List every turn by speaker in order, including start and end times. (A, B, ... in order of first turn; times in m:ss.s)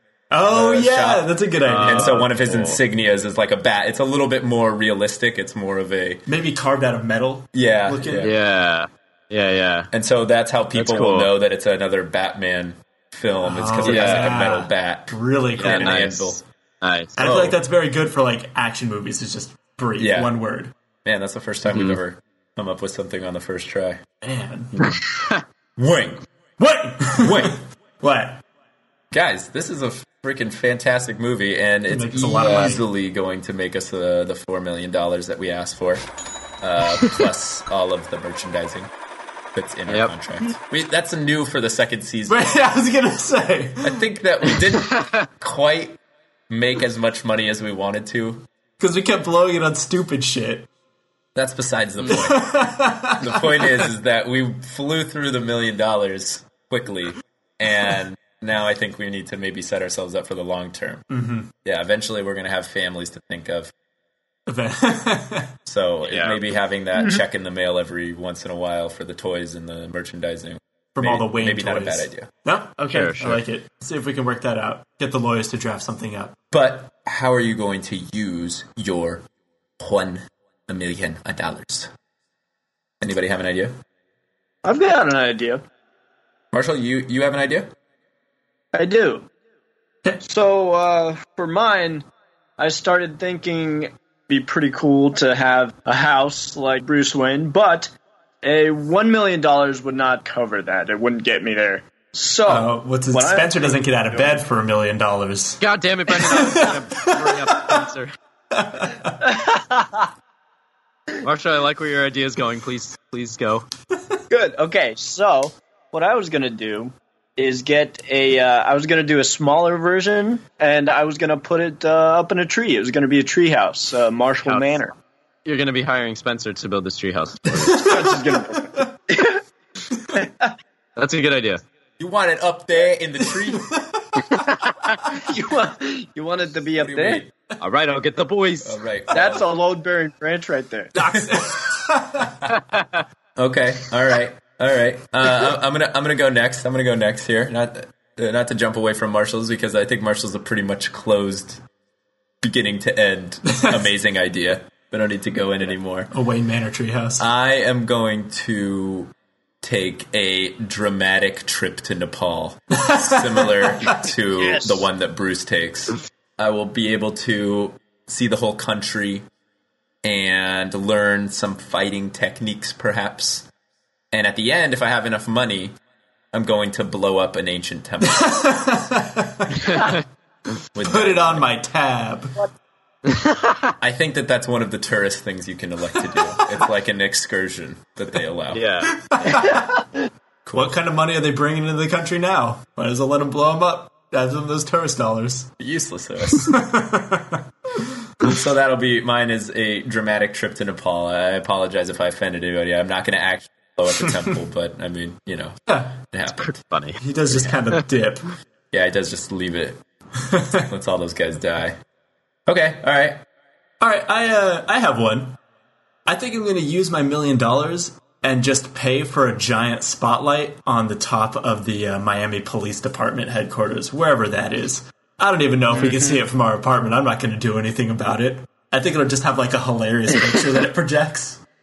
0:00.3-0:02.3 A
0:00.5-0:06.2 B
0:01.6-0:02.8 C
0:06.3-0:08.3 A
0:07.5-0:08.4 B
0:08.2-0:09.9 C
0:09.9-0:16.4 B
0:10.7-0:11.3 C
0:13.4-0:16.3 A
0:13.8-0:14.5 C
0:15.6-0:17.2 C
0:17.2-0:20.7 A
0:17.2-0:17.6 B
0:20.0-0:20.4 B
0:21.0-0:24.0 B
0:21.7-0:22.0 C
0:24.2-0:24.9 A
0:24.9-0:25.4 C
0:25.8-0:26.2 B
0:26.6-0:28.4 A
0:27.1-0:27.6 B
0:29.1-0:36.1 B
0:31.9-0:32.8 A
0:36.6-0:38.9 B
0:39.6-0:42.6 B
0:42.3-0:44.0 A
0:43.8-0:46.0 B
0:44.9-0:45.2 C
0:46.5-0:48.4 B
0:48.8-0:50.7 A
0:51.4-1:01.1 B
0:52.1-0:53.8 A
1:01.1-1:01.5 A
1:01.6-1:03.7 B
1:04.5-1:05.5 A
1:05.7-1:12.3 B
1:06.1-1:06.4 C
1:11.0-1:16.4 A
1:12.9-1:13.4 C
1:16.5-1:19.2 B
1:19.8-1:21.9 B
1:23.0-1:23.8 B
1:24.6-1:25.6 D
1:26.5-1:27.7 B
1:28.7-1:29.3 D
1:30.2-1:32.0 D
1:32.6-1:37.9 D
1:38.4-1:43.8 D
1:42.5-1:47.9 A
1:45.6-1:48.1 C
1:48.6-1:49.2 A
1:49.3-1:50.0 D
1:51.2-1:53.7 C
1:54.3-2:05.0 D
2:04.5-2:04.8 C
2:05.4-2:08.0 C
2:07.6-2:08.1 A
2:07.7-2:09.4 D
2:10.1-2:10.5 D
2:11.0-2:11.6 C
2:12.0-2:13.8 B
2:14.3-2:15.0 C
2:15.1-2:17.2 D
2:16.7-2:17.3 B
2:17.6-2:18.8 C
2:18.6-2:19.5 B
2:19.1-2:21.1 D
2:21.0-2:22.4 A
2:22.6-2:23.0 C
2:23.4-2:31.6 B
2:32.4-2:36.1 B
2:36.1-2:37.2 A
2:37.2-2:39.1 B
2:39.6-2:49.3 B
2:42.8-2:43.9 A
2:44.4-2:44.8 D
2:50.0-2:53.5 B
2:54.1-2:55.8 B
2:56.3-2:58.5 B
2:58.1-2:59.9 A
2:59.7-3:00.0 C
3:00.8-3:01.5 B
3:00.8-3:02.4 A
3:03.1-3:03.7 C
3:03.8-3:08.6 B
3:08.5-3:09.1 C
3:08.9-3:09.6 A
3:10.5-3:15.5 A
3:15.6-3:16.7 B
3:16.3-3:17.4 A
3:18.2-3:26.5 B
3:25.7-3:26.0 A
3:26.3-3:27.8 C
3:27.0-3:28.3 A
3:28.7-3:29.8 B
3:30.3-3:30.6 A
3:30.7-3:31.8 B
3:32.5-3:33.2 B
3:33.8-3:35.4 A
3:36.1-3:51.4 A